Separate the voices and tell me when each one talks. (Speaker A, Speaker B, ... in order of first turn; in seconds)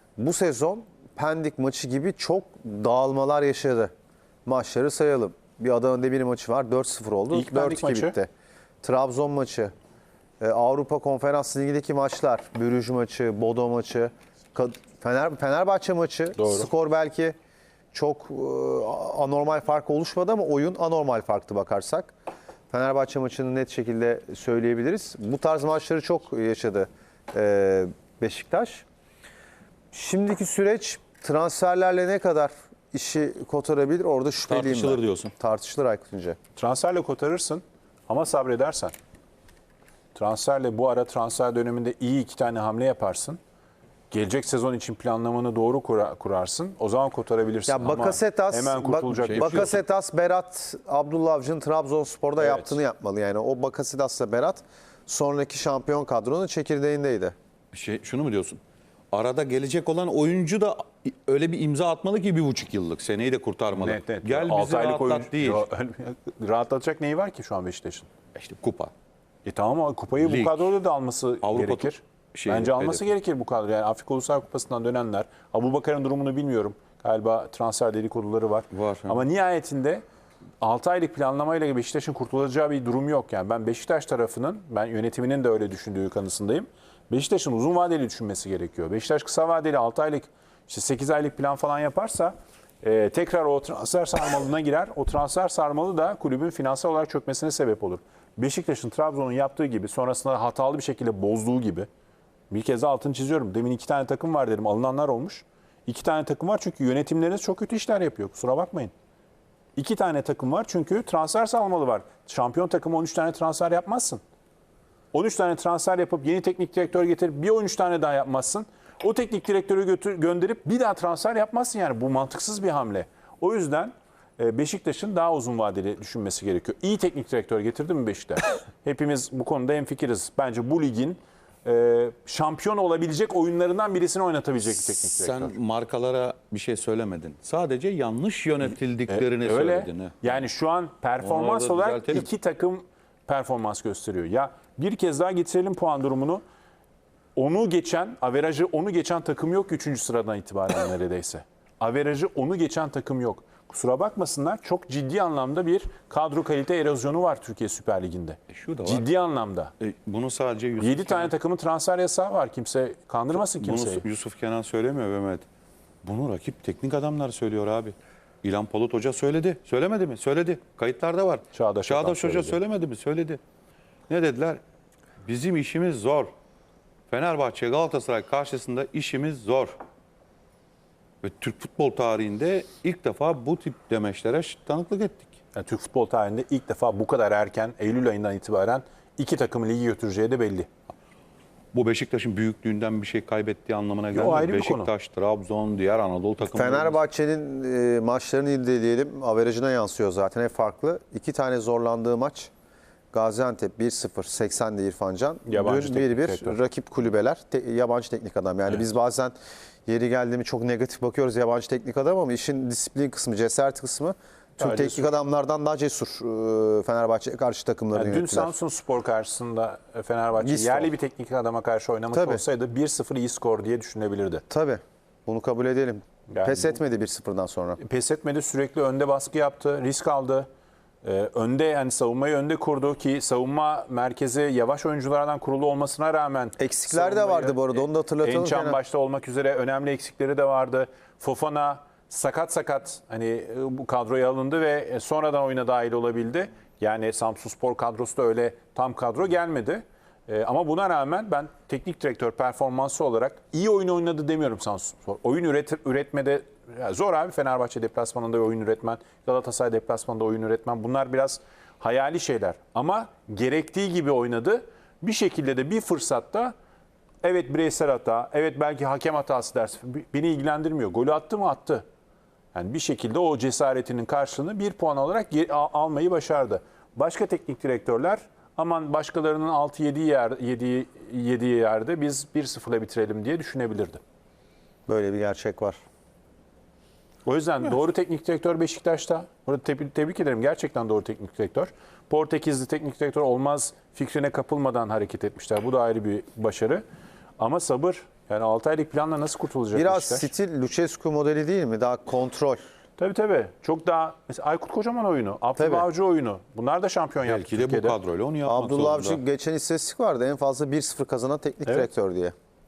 Speaker A: 0.2-3.9, 4.5-8.3, 8.8-9.7, 10.4-17.4, 17.9-22.1, 22.7-28.9, 29.9-36.4, 47.7-57.4, 196.5-202.5, 203.1-218.5, 220.4-220.9, 222.1-222.4, 224.5-227.8, 236.6-238.8, 284.9-285.8, 299.7-302.6, 305.6-305.9, 308.5-312.4
Speaker B: 7.3-8.2, 16.4-16.7, 36.6-38.9, 40.1-43.4, 44.1-49.8, 52.4-52.8, 63.7-68.1, 69.5-80.0, 80.6-101.9, 102.5-108.9, 109.8-114.2, 115.1-135.6, 139.1-146.4, 147.4-159.7, 160.8-164.1, 171.5-172.6, 185.6-190.7, 194.1-194.9, 205.5-206.6, 214.6-215.2, 217.9-224.4, 226.3-226.8, 227.8-230.5, 231.0-266.5, 267.2-271.8, 272.5-284.0, 287.2-296.8, 297.4-300.3, 303.0-308.0
Speaker C: 34.5-35.3, 49.2-49.8, 57.7-58.6, 59.1-65.7, 68.3-68.9, 70.2-70.7, 71.4-73.1, 78.7-79.2, 135.1-140.4, 141.2-142.3, 158.5-159.1, 159.8-161.3, 163.3-165.5, 166.0-173.4, 174.1-174.6, 175.2-176.3, 177.1-179.8, 181.2-185.3, 191.7-197.0, 307.2-309.2